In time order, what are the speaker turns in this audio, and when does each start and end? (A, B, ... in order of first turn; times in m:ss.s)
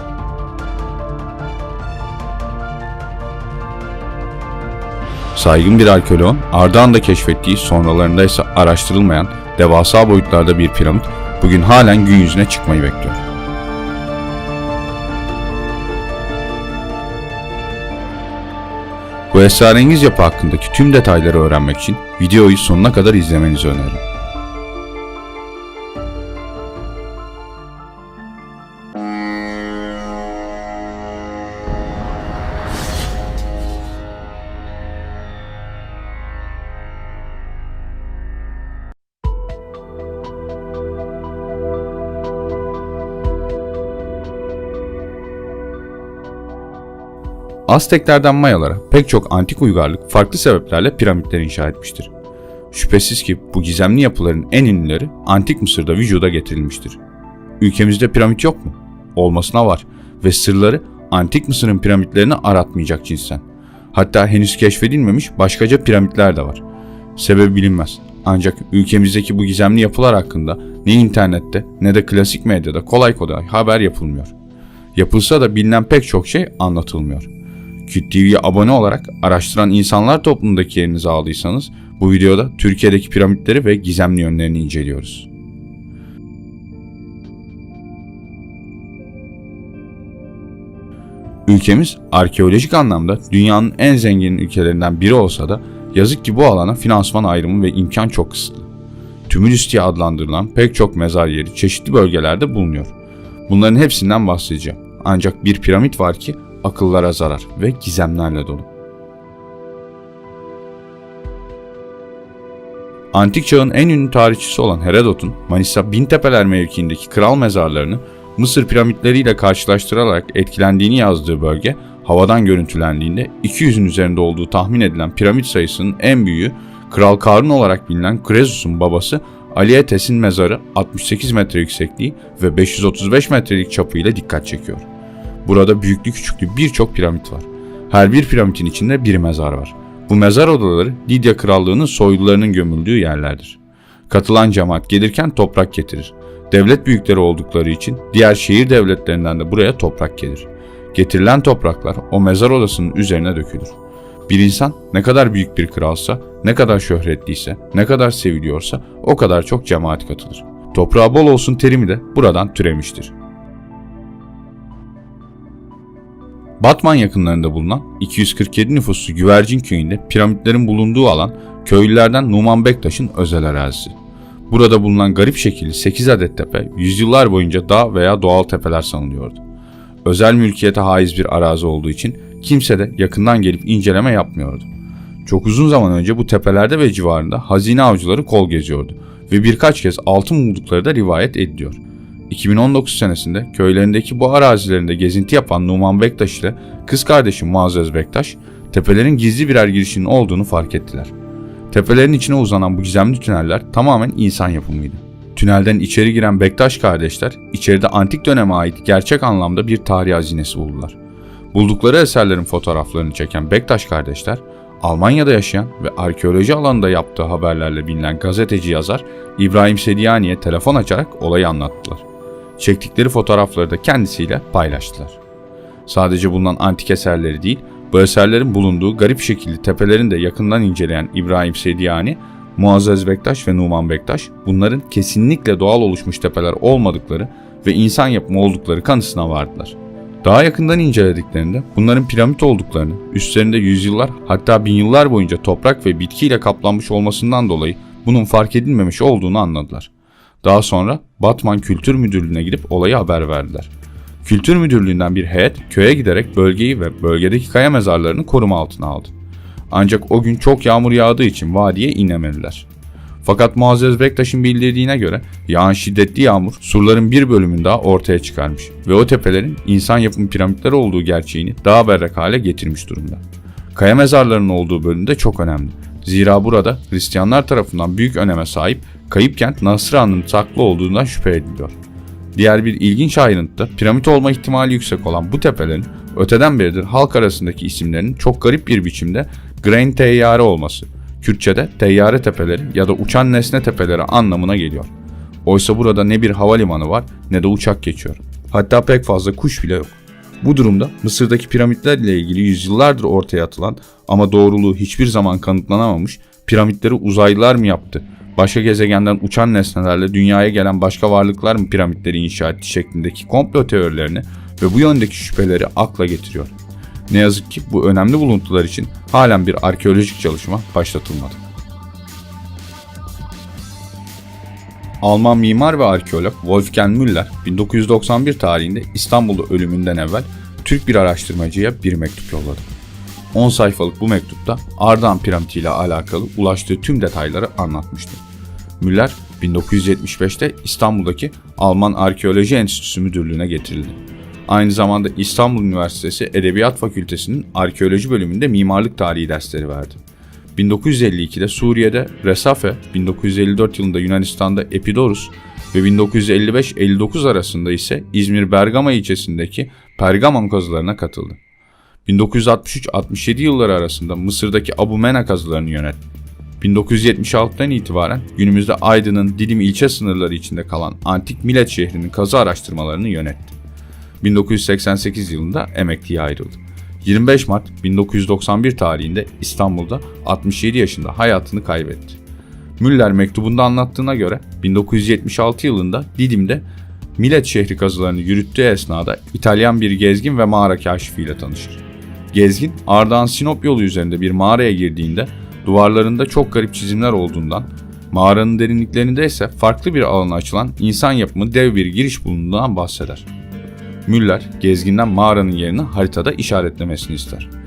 0:05.4-0:13.2 A
0:19.3-0:24.0 A
0:47.7-0:52.1 A
0:52.7-0:57.0 A
0:57.6-1:06.6 A
1:07.2-1:14.3 A
1:15.0-1:17.3 A
1:17.9-1:25.3 A
1:31.5-1:38.7 A
1:39.3-1:42.9 A
1:43.5-1:48.7 A
1:53.1-2:14.9 A
2:15.4-2:33.8 A
2:34.3-2:43.1 A
2:46.6-2:53.9 A
2:54.5-2:59.4 A
3:00.0-3:04.7 A
3:05.2-3:21.1 A
3:21.7-3:31.0 A
3:31.5-3:42.0 A
3:42.6-3:45.2 A
3:45.9-4:09.9 A
4:10.4-4:13.7 A
4:14.2-4:19.1 A
4:19.7-4:22.7 A
4:23.2-4:33.2 A
4:33.7-4:41.8 A
4:42.4-4:54.9 A
4:55.4-5:16.6 A
5:17.1-5:21.4 A
5:25.0-5:32.7 A
5:33.3-5:38.2 A
5:38.8-5:50.0 A
5:50.6-6:01.4 A
6:02.0-6:06.0 A
6:06.6-6:13.5 A
6:14.2-6:22.2 A
6:22.8-6:26.6 A
6:27.2-6:43.3 A
6:44.1-6:47.5 A